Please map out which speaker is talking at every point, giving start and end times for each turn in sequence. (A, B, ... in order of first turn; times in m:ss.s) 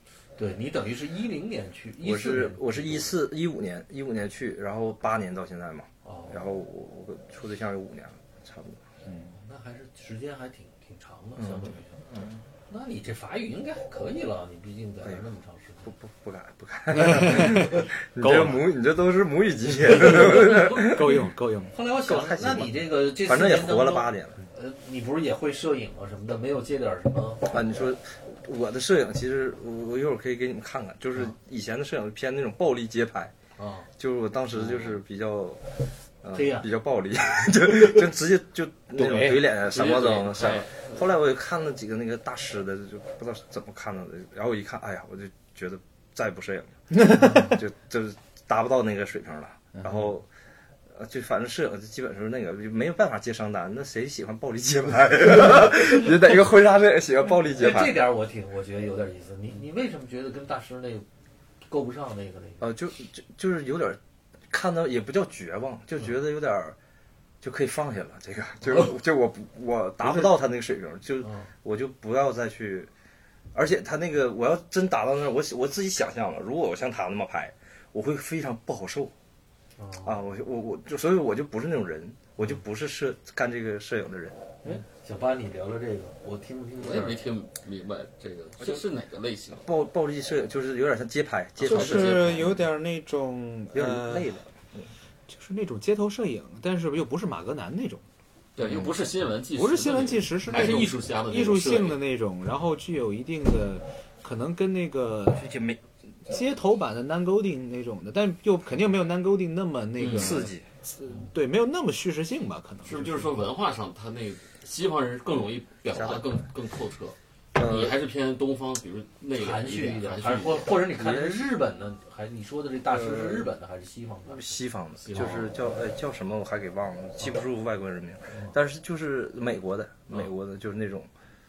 0:00.4-0:03.1 A
0:02.0-0:08.8 B
0:06.0-0:06.5 A
0:09.3-0:12.0 A
0:11.4-0:12.4 B
0:12.7-0:15.9 A
0:15.8-0:21.2 B
0:16.9-0:18.6 C
0:19.8-0:21.0 A
0:19.9-0:21.7 C
0:21.7-0:27.5 A
0:22.0-0:24.4 B
0:27.5-0:33.3 B
0:33.6-0:33.9 A
0:34.0-0:35.6 B
0:34.5-0:35.0 D
0:36.2-0:50.3 B
0:36.3-0:36.7 A
0:38.9-0:39.5 C
0:39.5-0:41.2 D
0:47.0-0:47.4 C
0:47.1-0:47.6 A
0:50.9-0:58.0 B
0:57.5-1:01.0 A
1:01.6-1:02.6 A
1:02.6-1:04.0 B
1:04.5-1:06.8 B
1:07.4-1:12.9 B
1:10.0-1:10.3 C
1:11.2-1:11.5 A
1:13.5-1:19.1 B
1:19.8-1:20.2 A
1:20.0-1:24.4 B
1:24.6-1:27.2 A
1:26.8-1:29.6 D
1:29.6-1:32.5 B
1:31.6-1:32.6 D
1:31.6-1:34.3 C
1:33.7-1:34.9 B
1:35.3-1:38.0 C
1:38.6-1:42.0 D
1:39.5-1:45.4 C
1:45.3-1:45.8 B
1:46.3-1:53.4 C
1:50.0-1:50.4 D
1:50.1-1:50.6 B
1:52.8-2:00.8 D
1:55.9-1:56.4 B
1:57.5-1:58.0 B
1:59.3-2:04.5 A
2:00.9-2:01.4 B
2:02.9-2:03.5 B
2:04.3-2:11.1 B
2:05.0-2:05.6 D